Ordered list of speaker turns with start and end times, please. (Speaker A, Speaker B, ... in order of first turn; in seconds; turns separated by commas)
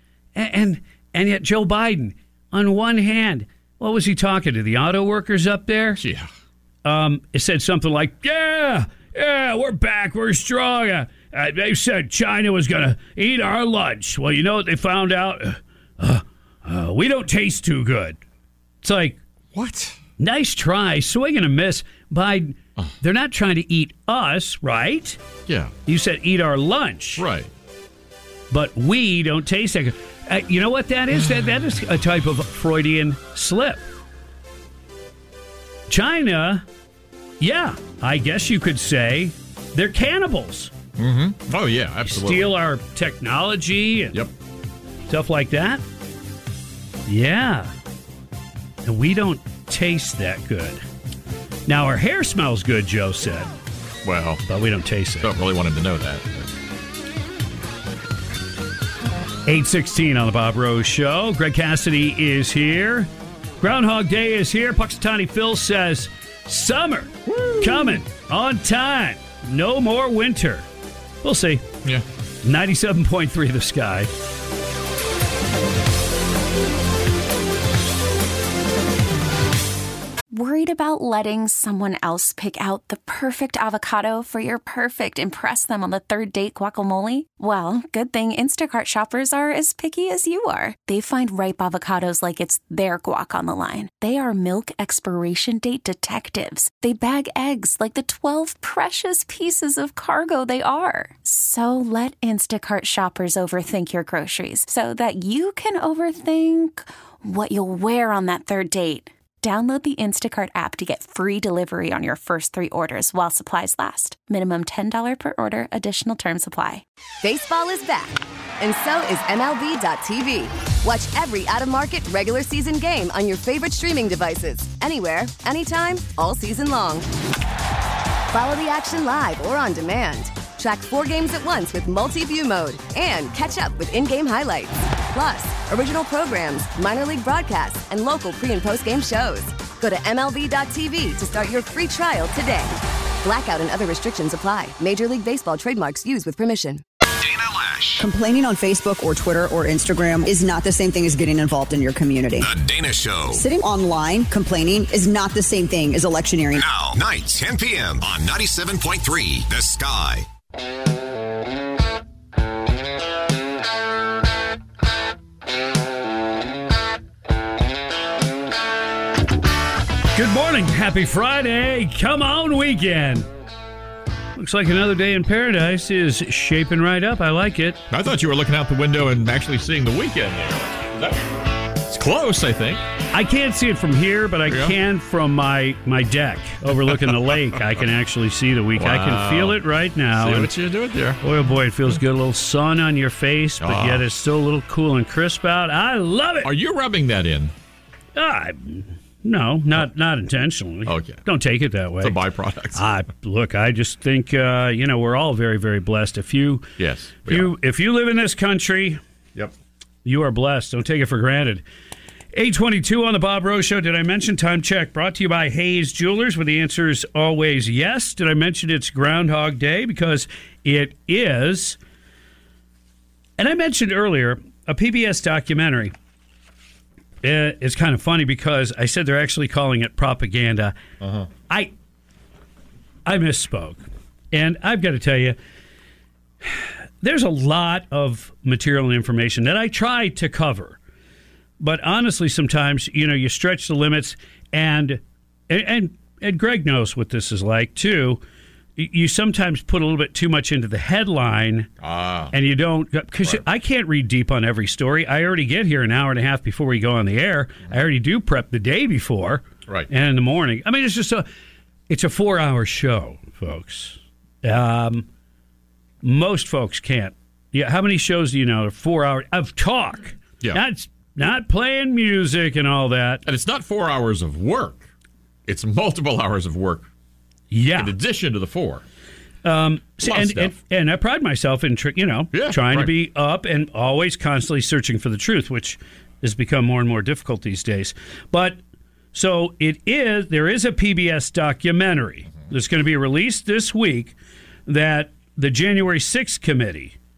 Speaker A: 0.4-6.0, Speaker B: 6.0-6.3, Speaker A: 6.8-18.2, Speaker A: 18.8-19.2, Speaker B: 19.5-20.0, Speaker A: 20.2-25.2, Speaker B: 25.5-25.7, Speaker A: 25.9-27.2, Speaker B: 27.2-27.5, Speaker A: 28.5-33.8, Speaker A: 35.9-36.6, Speaker A: 37.4-40.7, Speaker B: 41.0-42.5, Speaker A: 42.1-44.2, Speaker A: 45.1-45.8, Speaker A: 47.1-47.7, Speaker A: 48.9-50.8, Speaker A: 51.7-53.5, Speaker B: 54.0-54.4, Speaker A: 54.5-55.3, Speaker B: 55.2-56.5, Speaker A: 59.5-63.1, Speaker A: 63.6-70.7, Speaker B: 67.3-68.0, Speaker A: 71.2-71.7, Speaker A: 72.4-74.1, Speaker C: 80.3-116.8, Speaker D: 117.2-127.0, Speaker D: 128.3-142.7, Speaker D: 143.2-146.8, Speaker E: 147.2-148.1, Speaker F: 148.0-152.5, Speaker E: 152.4-153.4, Speaker F: 153.3-156.6, Speaker E: 156.5-160.2, Speaker A: 170.2-173.3, Speaker A: 174.4-177.8, Speaker B: 177.9-182.8, Speaker A: 183.1-190.5, Speaker B: 184.5-184.8, Speaker B: 188.8-189.6, Speaker B: 190.2-191.2, Speaker A: 191.2-196.5, Speaker B: 193.6-194.1, Speaker B: 196.4-197.5, Speaker A: 198.2-202.2, Speaker B: 200.9-201.2, Speaker B: 202.0-202.8, Speaker A: 202.8-206.7, Speaker B: 206.8-207.5, Speaker A: 207.2-209.0, Speaker A: 210.1-211.6, Speaker A: 212.3-221.8, Speaker A: 223.4-225.9, Speaker A: 227.2-230.8, Speaker B: 231.0-231.3, Speaker A: 233.1-235.4, Speaker A: 236.4-240.8, Speaker A: 241.6-248.2, Speaker A: 248.8-251.7, Speaker B: 251.8-252.3, Speaker A: 252.3-261.3, Speaker A: 261.9-265.1, Speaker A: 266.0-273.2, Speaker B: 273.2-274.9, Speaker B: 275.5-276.9, Speaker A: 277.5-277.9, Speaker B: 277.8-278.8, Speaker A: 279.4-288.6, Speaker B: 280.0-280.5, Speaker B: 282.3-282.9, Speaker A: 289.1-294.1, Speaker A: 294.7-297.0